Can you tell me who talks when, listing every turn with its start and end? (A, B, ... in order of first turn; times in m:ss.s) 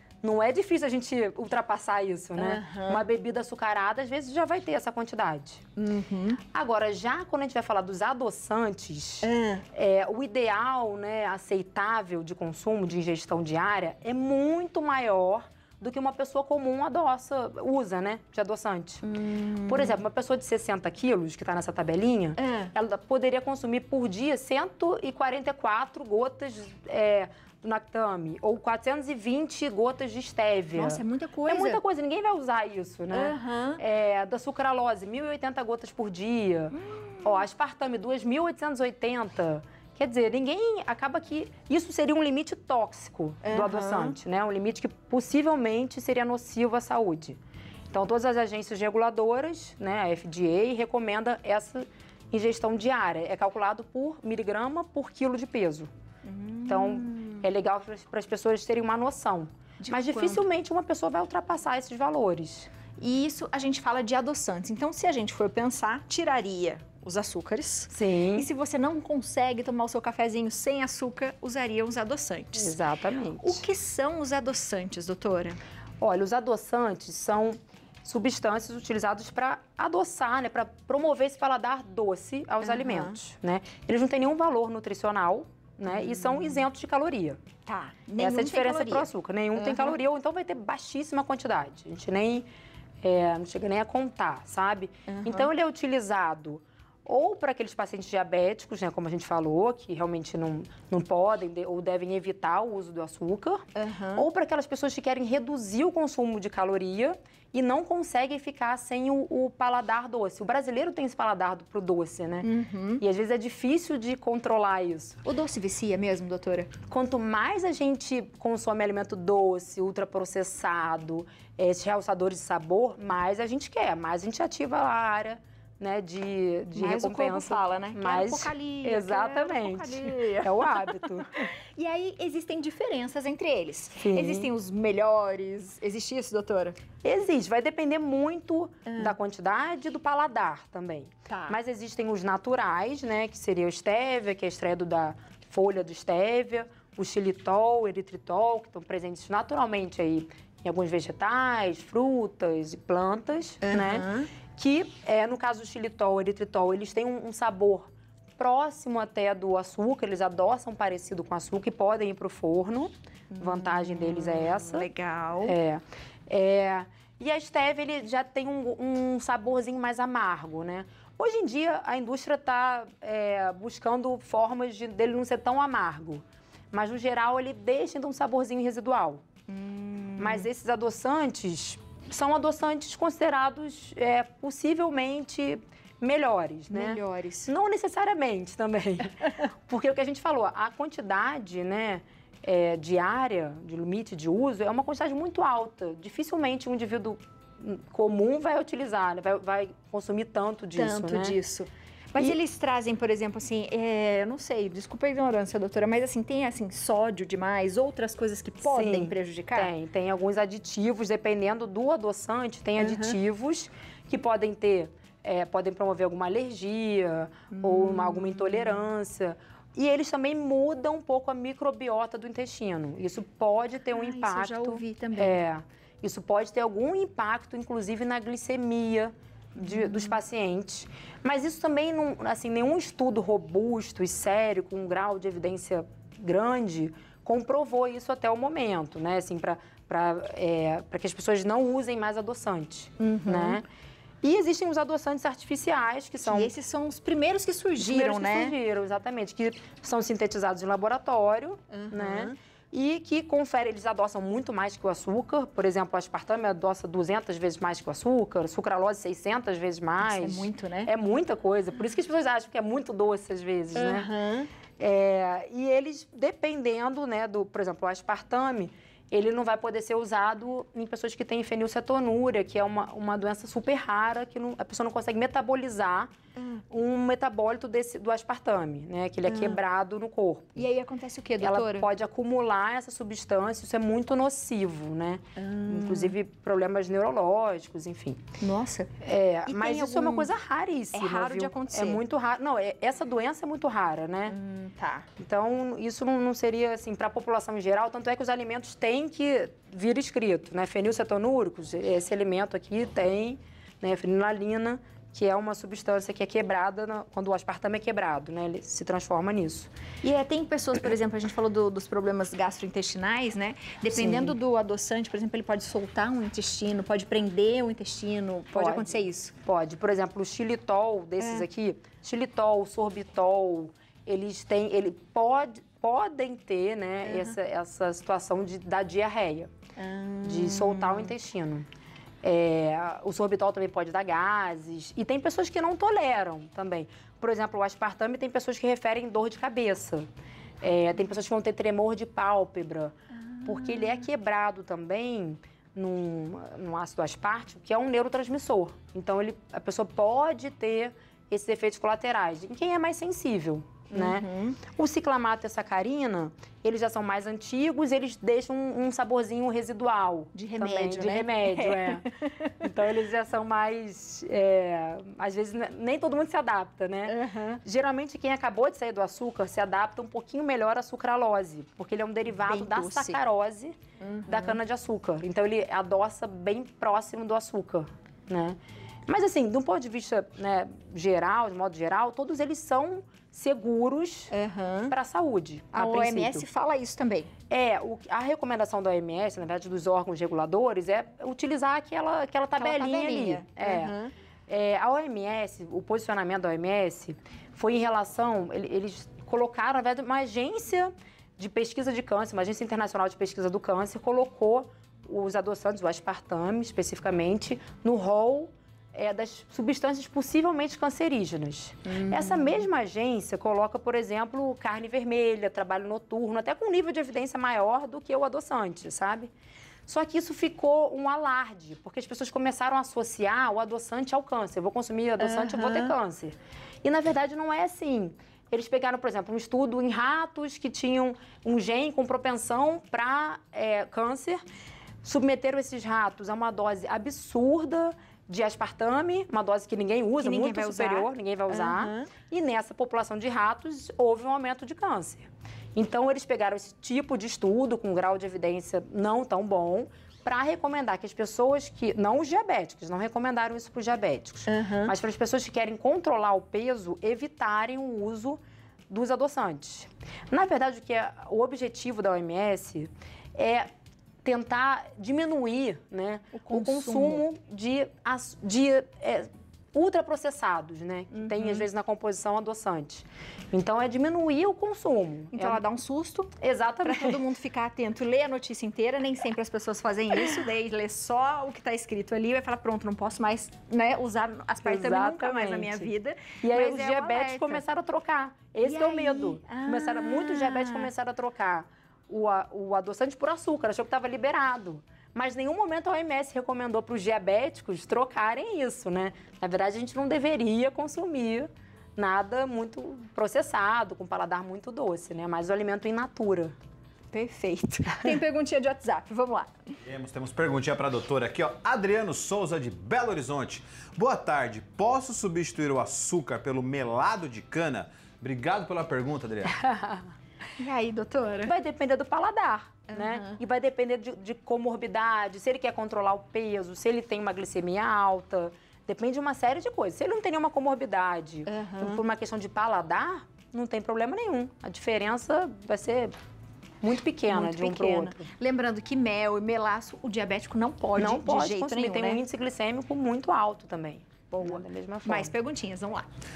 0:00.2-0:05.6 A
0:02.4-0:03.0 B
0:05.8-0:06.4 B
0:06.5-0:19.0 A
0:09.2-0:09.6 B
0:19.0-0:20.0 B
0:19.6-0:47.4 A
0:22.4-0:22.7 B
0:30.7-0:31.8 B
0:33.1-0:33.8 B
0:36.7-0:37.4 B
0:43.4-0:44.2 B
0:47.9-0:55.9 A
0:56.2-0:57.4 B
0:56.7-1:02.7 A
0:59.8-1:00.4 B
1:03.0-1:12.7 B
1:07.9-1:08.5 A
1:12.5-1:13.6 A
1:13.4-1:15.6 B
1:16.0-1:27.4 A
1:22.6-1:23.2 B
1:25.9-1:26.6 B
1:27.6-1:29.9 B
1:28.2-1:32.5 A
1:33.0-1:52.5 A
1:35.1-1:35.5 B
1:43.7-1:44.2 B
1:52.4-1:53.0 B
1:53.0-1:55.2 A
1:55.2-1:56.7 B
1:56.9-2:11.5 A
2:06.7-2:16.8 B
2:14.0-2:14.5 A
2:17.0-2:44.9 A
2:18.8-2:19.2 B
2:21.3-2:21.6 B
2:33.6-2:34.3 B
2:43.3-2:45.5 B
2:45.4-2:59.2 A
2:59.5-3:00.5 B
3:00.2-3:21.4 A
3:06.7-3:07.5 B
3:20.7-3:29.7 B
3:28.6-4:03.6 A
3:32.8-3:33.1 B
3:37.5-3:38.8 B
3:43.9-3:45.4 B
3:49.6-3:50.2 B
4:03.0-4:03.6 B
4:04.2-4:06.5 A
4:06.2-4:08.6 B
4:07.8-4:24.1 A
4:11.7-4:12.3 B
4:20.0-4:20.9 B
4:23.7-4:24.5 B
4:24.8-4:36.1 A
4:36.4-4:36.6 B
4:36.7-4:40.6 A
4:39.3-4:39.6 B
4:40.6-4:41.9 B
4:41.4-4:48.2 A
4:45.4-4:46.1 B
4:48.4-4:48.9 B
4:49.0-4:54.3 A
4:49.5-4:50.3 B
4:50.9-4:52.0 B
4:54.3-4:55.1 B
4:55.2-5:09.7 A
5:10.0-5:19.3 B
5:13.9-5:14.4 A
5:18.5-5:18.9 A
5:19.4-5:29.5 A
5:21.2-5:21.4 B
5:27.0-5:27.4 B
5:29.8-5:31.1 B
5:30.2-5:31.6 A
5:32.2-5:40.1 A
5:40.6-5:54.2 A
5:43.3-5:44.0 B
5:53.9-5:54.6 B
5:54.8-6:02.0 A
6:00.3-6:02.6 B
6:02.6-6:24.3 A
6:07.0-6:07.6 B
6:12.3-6:13.2 B
6:14.0-6:14.6 B
6:24.3-6:24.9 B
6:24.9-6:26.4 A
6:25.7-6:27.3 B
6:27.5-6:33.9 A
6:32.6-6:34.1 B
6:34.5-6:59.3 A
6:51.9-6:52.6 B
6:59.9-7:14.4 A
7:05.2-7:05.9 B
7:15.0-7:43.6 A
7:20.2-7:22.1 B
7:34.5-7:34.9 B
7:44.2-7:55.6 A
7:46.3-7:47.2 B
7:51.1-7:51.6 B
7:55.3-7:56.3 B
7:56.4-7:57.2 A
7:56.8-8:07.6 B
8:04.6-8:05.9 A
8:06.4-8:26.5 A
8:08.6-8:10.9 B
8:27.1-8:29.6 B
8:29.8-8:39.5 C
8:39.6-8:40.1 A
8:40.6-8:41.5 B
8:41.4-8:56.1 A
8:42.9-8:43.4 B
8:51.4-8:52.0 B
8:56.8-8:58.3 A
8:57.3-9:02.2 B
9:01.0-9:05.3 A
9:04.3-9:06.1 B